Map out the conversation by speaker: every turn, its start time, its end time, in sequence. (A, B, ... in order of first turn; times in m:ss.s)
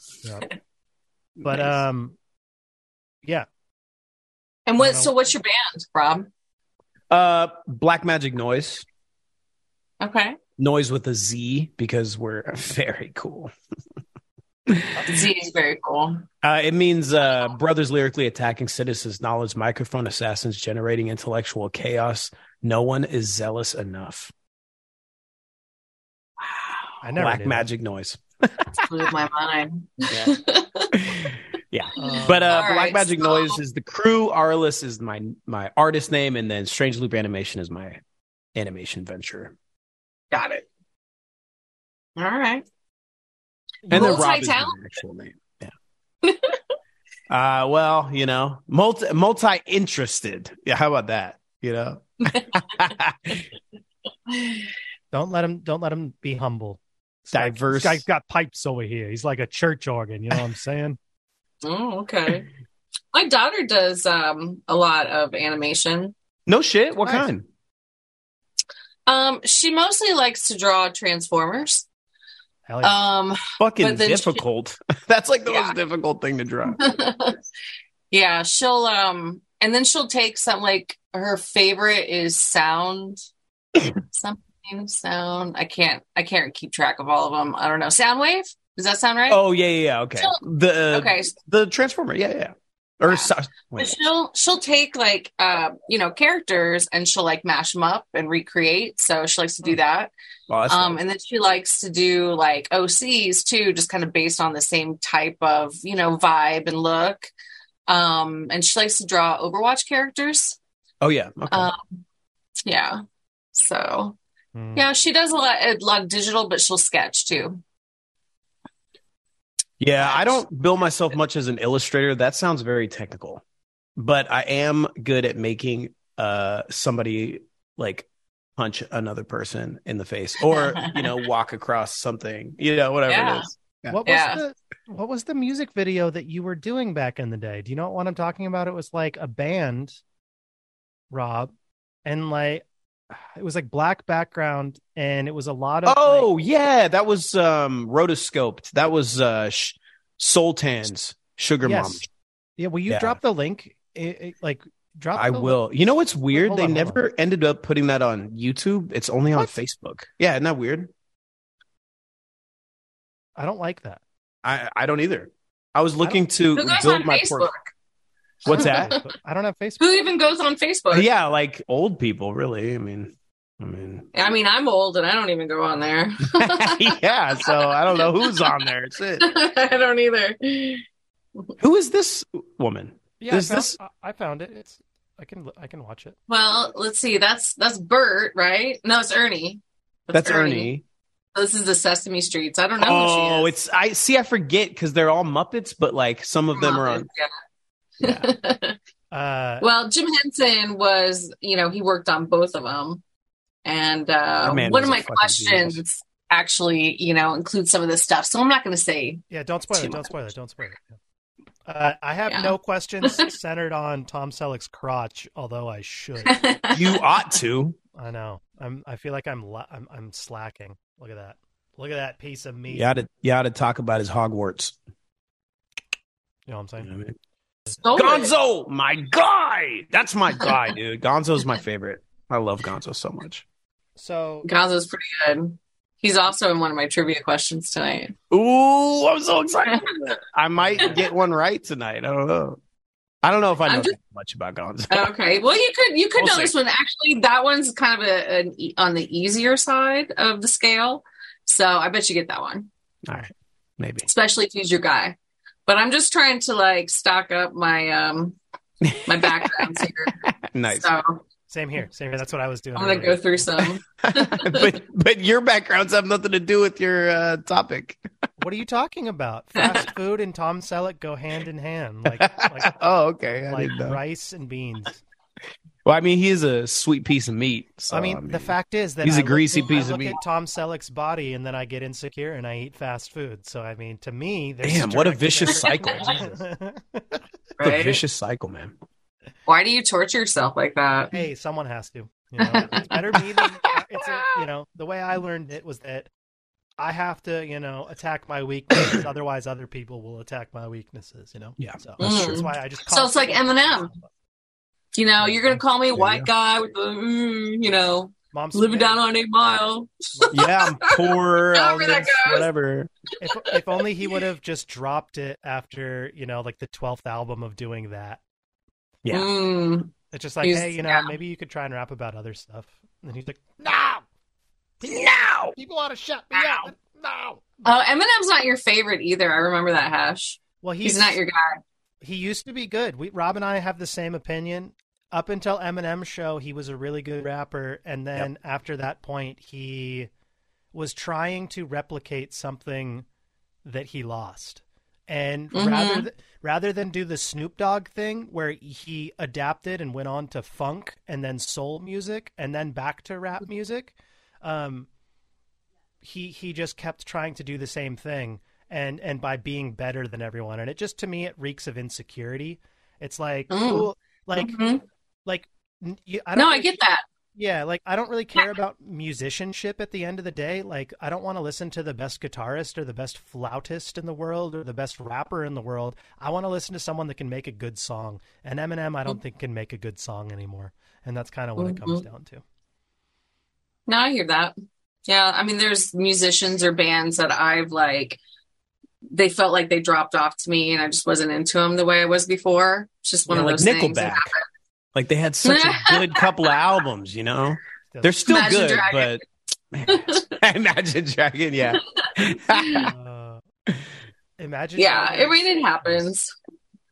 0:01.4-0:01.8 A
0:01.4-0:02.2 B
0:04.7-0:06.3 C
0:04.8-0:05.1 B
0:07.1-0:08.9 A
0:10.0-0:10.4 C
0:10.6-0:13.5 A
0:14.7-0:15.1 A
0:15.1-0:16.2 C
0:16.4-0:24.3 A
0:27.0-0:27.7 B
0:27.2-0:28.8 A
0:28.8-0:30.9 C
0:30.0-0:30.4 A
0:30.9-0:38.0 A
0:32.0-0:32.6 B
0:32.0-0:33.6 C
0:38.6-0:39.5 A
0:40.3-0:40.6 C
0:42.2-0:42.6 C
0:43.9-0:44.3 B
0:43.9-0:45.7 A
0:43.9-0:44.8 C
0:46.2-0:46.6 C
0:47.3-0:53.5 A
0:54.3-0:54.6 C
0:55.1-1:01.0 B
0:57.3-0:58.0 A
1:01.6-1:02.5 C
1:03.1-1:06.1 C
1:06.5-1:07.4 A
1:09.1-1:11.8 C
1:12.7-1:13.0 B
1:12.8-1:14.4 C
1:13.6-1:16.8 A
1:15.5-1:15.8 C
1:16.8-1:17.4 C
1:18.1-1:23.2 C
1:24.1-1:29.4 C
1:29.3-1:34.0 A
1:30.9-1:31.3 C
1:33.1-1:40.1 C
1:40.5-1:41.0 A
1:40.7-1:47.3 C
1:47.9-1:50.6 C
1:51.0-1:51.7 A
1:51.5-1:51.8 C
1:52.6-1:53.0 C
1:53.5-1:54.2 C
1:54.6-1:54.8 B
1:54.8-1:57.6 C
1:59.8-2:03.4 A
2:04.0-2:14.0 A
2:13.1-2:13.5 C
2:13.9-2:19.9 B
2:14.1-2:14.4 C
2:21.1-2:21.5 B
2:22.0-2:22.6 B
2:23.3-2:26.3 B
2:25.9-2:32.1 A
2:31.6-2:32.0 B
2:32.6-2:35.6 B
2:32.9-2:33.2 A
2:35.2-2:40.9 A
2:36.3-2:37.0 B
2:43.4-2:44.0 B
2:44.4-2:47.5 A
2:46.5-2:47.7 C
2:48.5-2:48.9 A
2:48.5-2:49.8 B
2:48.5-2:49.0 C
2:49.8-2:51.1 C
2:50.9-2:54.1 A
2:54.1-2:58.5 C
2:56.2-2:59.3 A
2:59.2-3:00.8 C
3:01.6-3:03.8 A
3:03.2-3:06.2 B
3:06.3-3:10.7 C
3:10.1-3:10.8 A
3:11.3-3:13.5 C
3:12.8-3:17.1 A
3:16.6-3:17.3 C
3:18.0-3:18.3 A
3:18.0-3:18.8 C
3:19.1-3:19.7 B
3:19.6-3:23.0 C
3:23.6-3:30.0 C
3:24.4-3:25.8 A
3:29.3-3:31.0 B
3:31.7-3:36.6 B
3:32.3-3:33.3 C
3:36.2-3:36.8 C
3:36.7-3:37.8 A
3:38.0-3:43.0 B
3:42.7-3:44.8 A
3:46.5-3:46.9 B
3:46.8-3:47.2 A
3:47.8-3:48.3 C
3:47.9-3:53.4 A
3:54.0-3:54.5 B
3:54.4-3:58.2 C
3:58.3-4:02.6 A
4:00.6-4:01.0 B
4:03.2-4:05.1 A
4:03.7-4:03.9 C
4:04.9-4:12.7 C
4:06.2-4:06.5 A
4:13.1-4:14.1 A
4:14.1-4:15.2 C
4:15.7-4:18.4 C
4:18.8-4:20.9 A
4:19.0-4:20.2 C
4:20.7-4:21.2 C
4:21.5-4:23.5 B
4:22.8-4:24.7 C
4:24.0-4:28.0 A
4:28.4-4:32.8 B
4:29.6-4:29.9 C
4:32.0-4:34.0 A
4:33.5-4:35.0 B
4:35.8-4:40.2 A
4:37.9-4:47.2 B
4:44.6-4:46.3 A
4:47.6-4:48.0 C
4:47.6-4:48.8 A
4:49.5-4:51.1 C
4:51.1-4:56.1 B
4:52.4-4:53.0 C
4:56.8-5:04.1 B
5:01.6-5:02.1 A
5:02.0-5:03.9 C
5:04.9-5:12.5 C
5:06.0-5:06.2 A
5:08.3-5:09.0 B
5:10.2-5:10.4 B
5:10.3-5:12.9 A
5:13.2-5:18.2 B
5:19.0-5:19.3 A
5:19.1-5:21.1 C
5:20.1-5:24.0 B
5:24.8-5:27.4 B
5:24.8-5:25.6 A
5:27.6-5:31.6 C
5:30.6-5:31.2 B
5:32.0-5:40.1 B
5:40.7-5:43.0 B
5:43.6-5:54.9 B
5:45.5-5:46.1 C
5:56.0-6:04.6 B
6:03.5-6:04.8 C
6:05.2-6:06.8 B
6:06.3-6:07.0 C
6:07.3-6:22.4 B
6:21.6-6:22.0 C
6:23.9-6:24.5 C
6:25.0-6:28.2 C
6:29.1-6:34.4 C
6:33.3-6:34.3 A
6:34.9-6:42.9 A
6:35.4-6:36.3 C
6:37.9-6:38.2 B
6:38.2-6:39.2 C
6:39.9-6:40.2 C
6:42.8-6:43.4 B
6:44.4-6:46.1 B
6:44.8-6:46.3 C